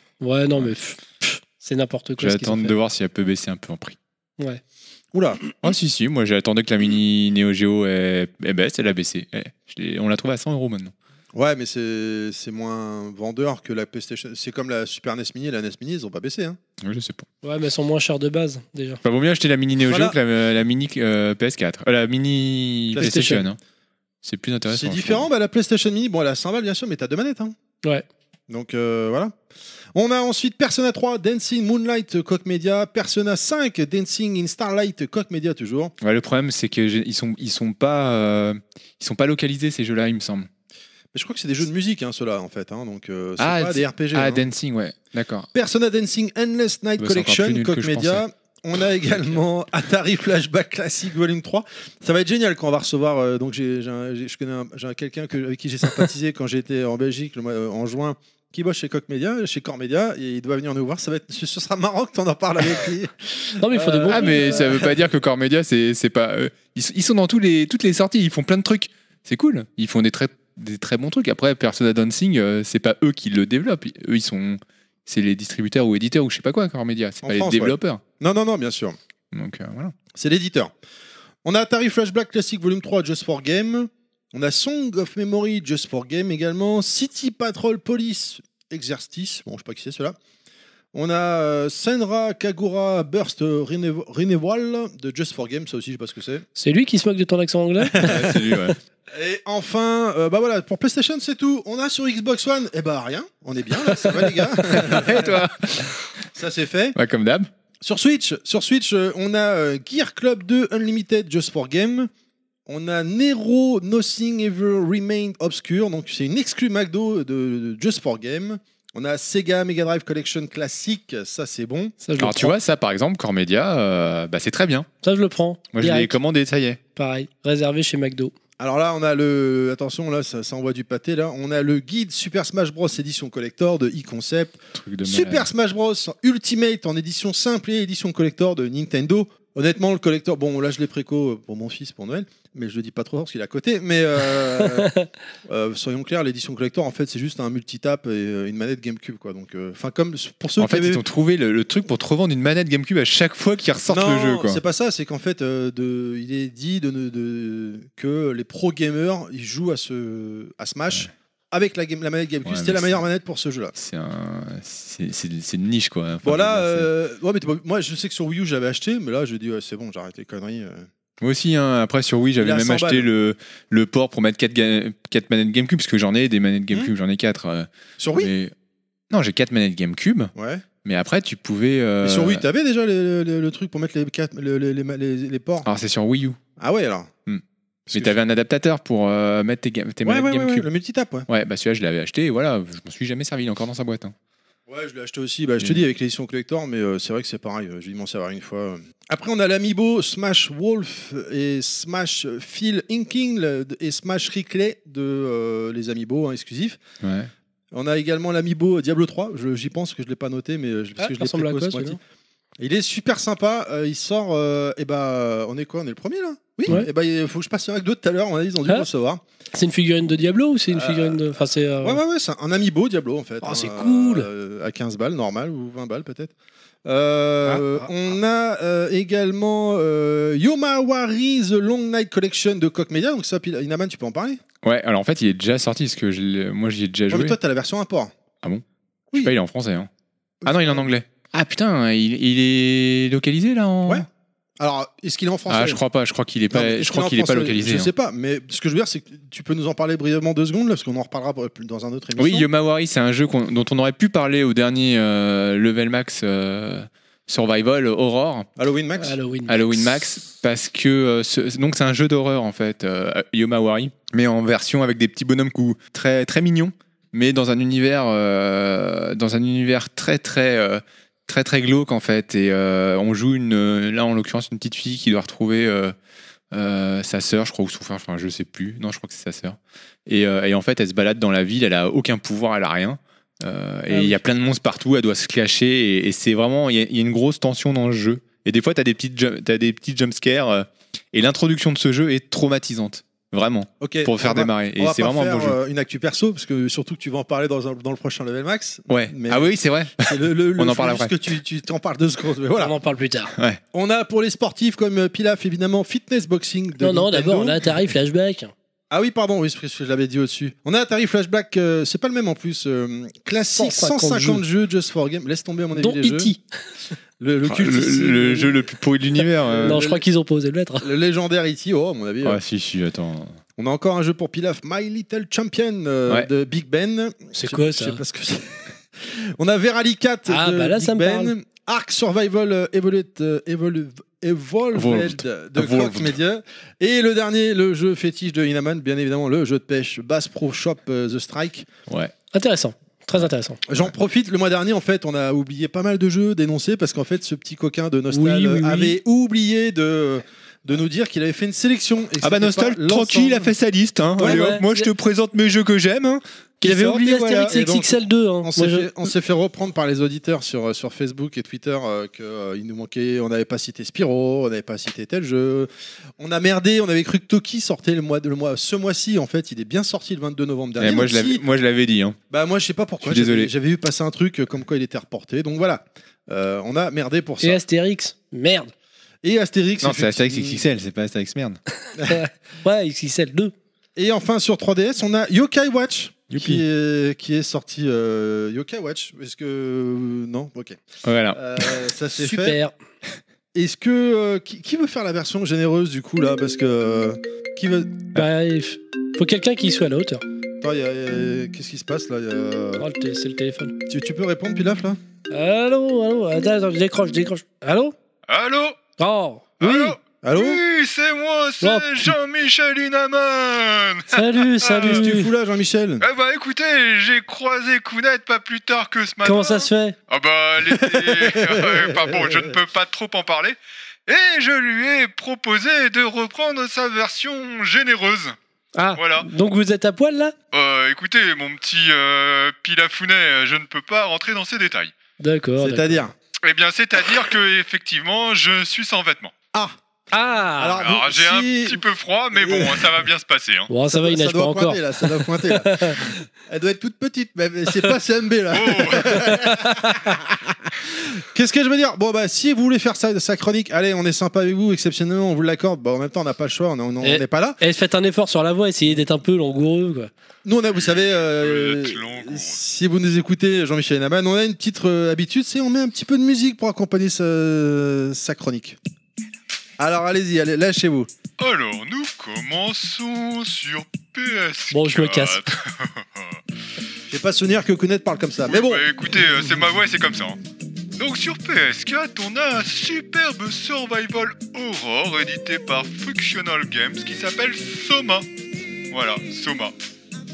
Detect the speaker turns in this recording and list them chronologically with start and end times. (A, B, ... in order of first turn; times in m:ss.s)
0:00.2-0:02.8 A
0:02.2-0:04.0 B
0:05.1-0:05.4 C
0:05.6-0:10.9 B
0:11.3-0:16.6 C
0:16.8-0:17.2 B
0:17.4-0:19.0 A
0:19.0-0:23.6 B
0:19.8-0:20.2 C
0:22.9-0:23.5 C
0:23.0-0:23.4 A
0:24.2-0:25.3 B
0:24.7-0:27.5 C
0:28.5-0:29.3 C
0:29.9-0:35.9 C
0:36.0-0:40.5 B
0:41.1-0:44.4 C
0:43.4-0:45.5 B
0:45.5-1:04.9 C
0:47.0-0:48.2 B
1:03.6-1:04.6 A
1:04.1-1:18.0 B
1:17.2-1:19.0 C
1:19.3-1:19.9 B
1:20.1-1:20.7 C
1:21.4-1:30.2 C
1:30.9-1:36.4 C
1:36.6-1:38.4 A
1:37.9-1:38.3 C
1:38.0-1:38.8 B
1:39.1-1:45.4 C
1:44.6-1:46.0 B
1:46.3-1:47.0 C
1:47.0-1:47.5 B
1:47.8-1:52.1 C
1:52.6-2:01.9 C
2:02.0-2:02.6 A
2:02.2-2:04.9 B
2:05.0-2:06.2 A
2:05.7-2:06.8 B
2:07.0-2:08.3 A
2:08.6-2:24.9 C
2:14.7-2:15.5 B
2:24.6-2:25.1 A
2:25.4-2:31.0 C
2:30.6-2:34.6 B
2:33.9-2:43.7 C
2:42.4-2:43.0 B
2:43.7-2:46.9 B
2:46.2-2:50.9 C
2:51.2-2:58.5 B
2:52.4-2:53.1 C
2:58.0-2:58.3 C
2:59.1-3:00.3 B
3:00.3-3:00.6 C
3:00.8-3:02.4 B
3:02.0-3:05.7 C
3:05.6-3:06.4 B
3:06.6-3:07.1 C
3:07.2-3:10.7 B
3:07.9-3:08.1 C
3:10.0-3:11.3 C
3:11.3-3:14.1 B
3:14.7-3:26.8 C
3:27.0-3:27.3 B
3:27.7-3:32.0 C
3:31.0-3:32.0 A
3:32.6-3:39.2 C
3:39.5-3:42.0 A
3:40.7-3:41.3 C
3:41.8-3:46.3 C
3:43.4-3:44.3 A
3:46.8-3:54.4 C
3:47.4-3:47.8 A
3:54.6-3:57.4 B
3:57.1-3:58.1 C
3:59.2-3:59.9 B
4:00.4-4:00.8 C
4:00.4-4:04.0 B
4:04.6-4:05.8 C
4:05.5-4:07.9 B
4:06.5-4:12.5 C
4:12.2-4:18.5 B
4:18.6-4:19.2 C
4:19.0-4:19.8 A
4:19.5-4:35.9 B
4:36.5-4:55.6 B
4:43.9-4:44.2 A
4:53.8-5:02.7 C
4:58.9-5:01.1 B
5:02.6-5:03.3 A
5:03.3-5:03.6 B
5:03.7-5:07.7 C
5:06.8-5:08.5 A
5:08.9-5:16.3 C
5:13.6-5:14.4 A
5:15.8-5:16.4 A
5:17.2-5:18.6 C
5:17.4-5:19.8 B
5:19.4-5:20.0 C
5:19.6-5:20.8 A
5:20.8-5:22.4 C
5:22.2-5:23.4 B
5:23.6-5:41.7 C
5:27.3-5:28.0 A
5:30.3-5:31.3 A
5:34.7-5:36.1 B
5:41.9-5:42.1 B
5:42.3-5:43.6 A
5:43.7-5:53.5 C
5:48.1-5:49.0 A
5:52.2-5:57.5 B
5:54.2-5:54.4 C
5:54.2-5:54.9 A
5:56.6-5:58.9 A
5:56.9-6:11.4 C
6:10.8-6:12.2 B
6:12.3-6:17.6 C
6:13.0-6:13.5 B
6:17.4-6:18.7 A
6:19.2-6:20.6 C
6:19.8-6:21.6 B
6:22.0-6:22.2 C
6:22.0-6:23.5 A
6:24.0-6:32.6 C
6:26.3-6:26.6 B
6:31.0-6:31.7 B
6:32.2-6:32.7 A
6:33.5-6:38.1 C
6:38.1-6:40.2 A
6:40.6-6:42.8 C
6:42.8-6:43.7 A
6:43.8-6:45.0 C
6:45.3-6:47.9 A
6:48.3-6:48.8 B
6:49.0-6:50.0 A
6:49.6-6:55.1 B
6:50.2-6:50.6 C
6:51.6-6:52.1 A
6:54.1-6:55.3 A
6:54.7-6:56.0 C
6:56.0-7:03.6 B
6:59.2-7:00.0 A
7:00.6-7:02.5 C
7:04.1-7:08.4 B
7:08.8-7:10.3 A
7:08.9-7:09.3 B
7:10.5-7:14.9 B
7:15.2-7:16.0 A
7:15.6-7:16.1 C
7:16.4-7:19.3 B
7:20.1-7:20.8 A
7:20.6-7:23.0 C
7:20.8-7:23.7 B
7:23.7-7:26.1 A
7:23.9-7:37.6 C
7:28.5-7:29.3 B
7:29.2-7:29.9 A
7:37.0-7:40.1 A
7:40.4-7:48.8 C
7:40.8-7:42.6 B
7:49.8-7:51.1 C
7:51.4-7:56.4 B
7:54.7-7:55.5 A
7:57.1-7:58.9 C
7:58.5-8:00.4 B
8:01.0-8:08.2 B
8:08.9-8:09.7 B